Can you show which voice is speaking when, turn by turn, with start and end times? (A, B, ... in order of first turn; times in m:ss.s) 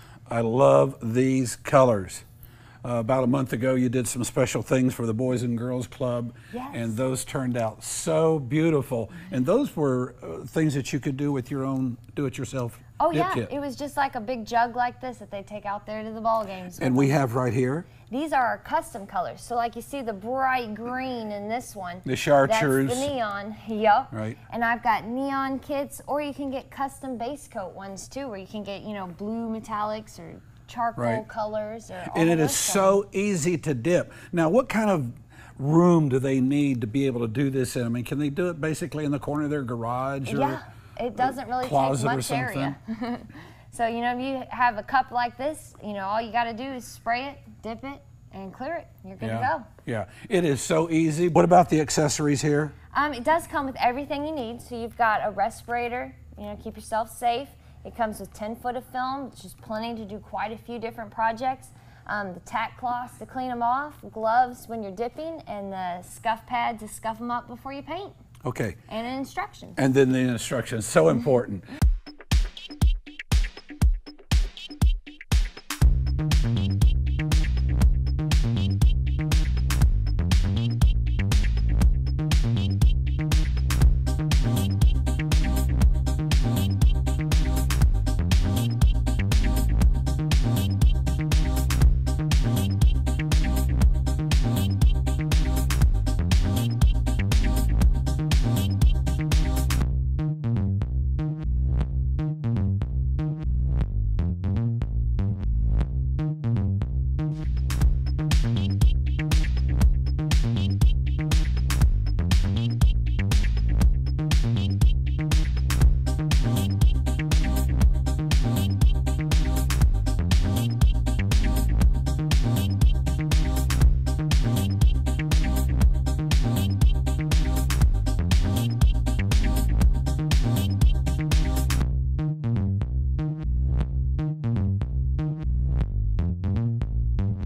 0:00.3-0:02.2 A
0:02.8-0:13.5 A
0:06.5-0:07.0 B
0:13.0-0:17.2 B
0:16.8-0:17.9 A
0:18.1-0:33.0 B
0:22.0-0:23.1 A
0:24.1-0:24.4 A
0:31.0-0:31.2 A
0:32.1-0:40.6 A
0:40.3-0:49.7 B
0:41.6-0:42.7 A
0:49.2-0:52.7 A
0:52.9-1:08.2 B
1:08.4-1:08.8 A
1:08.9-1:09.8 B
1:09.8-1:11.6 A